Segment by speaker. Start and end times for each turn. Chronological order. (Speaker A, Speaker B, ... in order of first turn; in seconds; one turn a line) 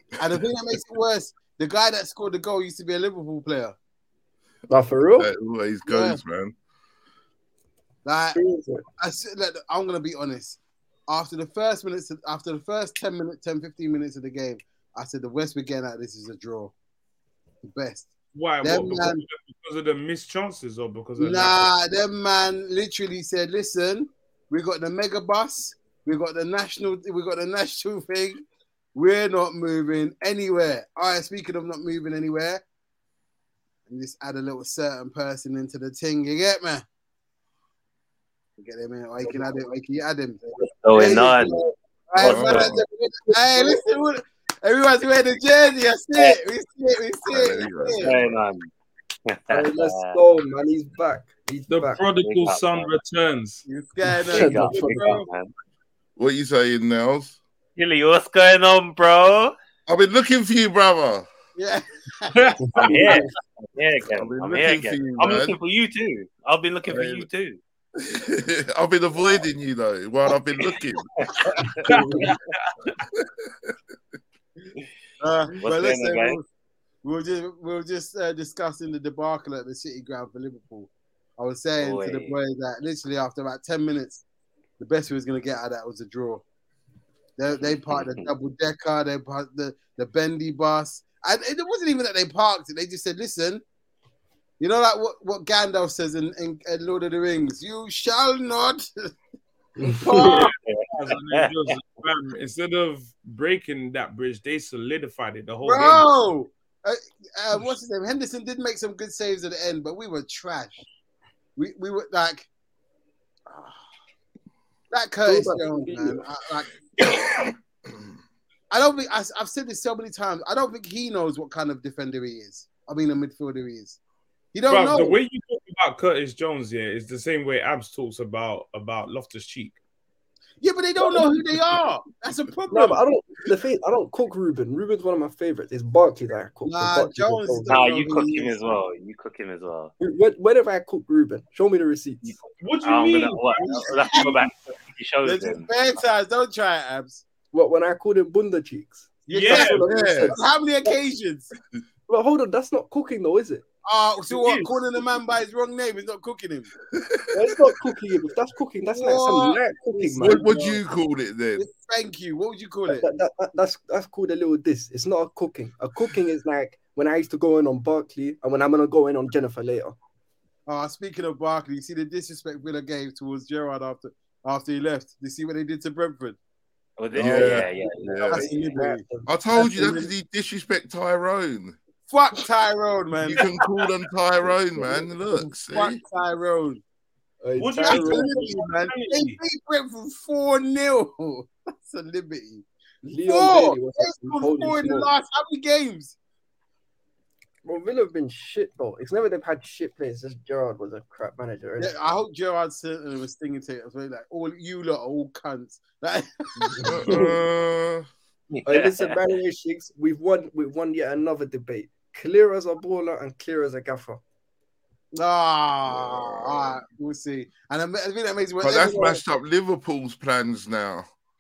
Speaker A: 0.2-3.7
Speaker B: 4.7-5.3
Speaker C: 5.2-6.5
Speaker A: 5.9-6.2
Speaker A: 8.0-8.4
Speaker B: 8.3-8.8
Speaker A: 9.0-16.7
Speaker A: 17.7-18.1
Speaker D: 18.3-21.7
Speaker A: 18.6-19.2
Speaker A: 21.2-32.6
Speaker A: 33.9-36.8
Speaker A: 38.6-48.1
Speaker E: 40.6-41.5
Speaker E: 42.2-42.8
Speaker C: 42.2-42.8
Speaker B: 43.3-43.8
Speaker C: 47.2-48.3
Speaker E: 48.0-48.7
Speaker E: 49.3-50.2
Speaker B: 49.5-52.0
Speaker D: 51.7-53.6
Speaker E: 52.2-52.9
Speaker A: 53.7-55.3
Speaker E: 54.2-55.5
Speaker B: 54.3-55.2
Speaker C: 56.2-57.4
Speaker E: 57.8-59.5
Speaker C: 59.9-61.3
Speaker A: 61.5-63.2
Speaker D: 62.3-63.3
Speaker E: 62.8-67.6
Speaker C: 64.2-65.5
Speaker C: 66.9-67.3
Speaker C: 68.0-71.0
Speaker E: 71.2-72.4
Speaker D: 71.8-72.9
Speaker B: 71.8-72.3
Speaker A: 71.9-72.2
Speaker C: 73.1-73.5
Speaker A: 75.2-76.4
Speaker E: 75.6-76.4
Speaker A: 77.0-84.2
Speaker E: 81.8-82.4
Speaker A: 84.8-86.4
Speaker A: 87.4-93.6
Speaker E: 87.7-88.3
Speaker A: 94.6-99.1
Speaker B: 99.8-100.0
Speaker A: 99.9-100.5
Speaker D: 100.0-106.1
Speaker E: 100.7-101.5
Speaker A: 105.7-110.8
Speaker A: 111.5-112.5
Speaker A: 113.5-113.8
Speaker A: 114.9-116.7
Speaker B: 115.2-116.2
Speaker A: 118.7-124.0
Speaker A: 124.5-125.2
Speaker D: 124.7-129.8
Speaker A: 130.6-133.0
Speaker B: 132.7-137.8
Speaker A: 136.7-138.6
Speaker E: 137.7-139.9
Speaker B: 140.0-142.4
Speaker E: 142.2-145.7
Speaker D: 142.6-144.5
Speaker A: 145.2-147.2
Speaker B: 147.5-151.0
Speaker A: 149.3-151.5
Speaker D: 149.3-149.8
Speaker C: 149.8-150.3
Speaker B: 152.1-153.6
Speaker A: 153.8-156.7
Speaker D: 154.3-154.7
Speaker C: 156.9-157.8
Speaker B: 157.3-160.5
Speaker A: 158.9-160.8
Speaker C: 160.2-161.7
Speaker A: 161.6-163.0
Speaker B: 162.9-170.0
Speaker A: 170.7-176.4
Speaker E: 177.0-178.3
Speaker C: 177.2-178.5
Speaker B: 177.2-179.3
Speaker A: 178.3-180.1
Speaker C: 179.2-181.8
Speaker A: 182.1-183.4
Speaker C: 183.3-186.0
Speaker B: 184.7-185.0
Speaker A: 185.7-186.8
Speaker B: 187.4-188.3
Speaker D: 187.6-189.4
Speaker A: 187.8-192.7
Speaker B: 193.0-195.1
Speaker A: 193.3-196.2
Speaker B: 197.6-201.9
Speaker A: 201.8-207.2
Speaker C: 206.8-208.1
Speaker B: 207.0-207.3
Speaker E: 208.5-209.2
Speaker B: 208.7-214.2
Speaker A: 215.2-219.2
Speaker C: 215.9-216.8
Speaker C: 218.6-221.1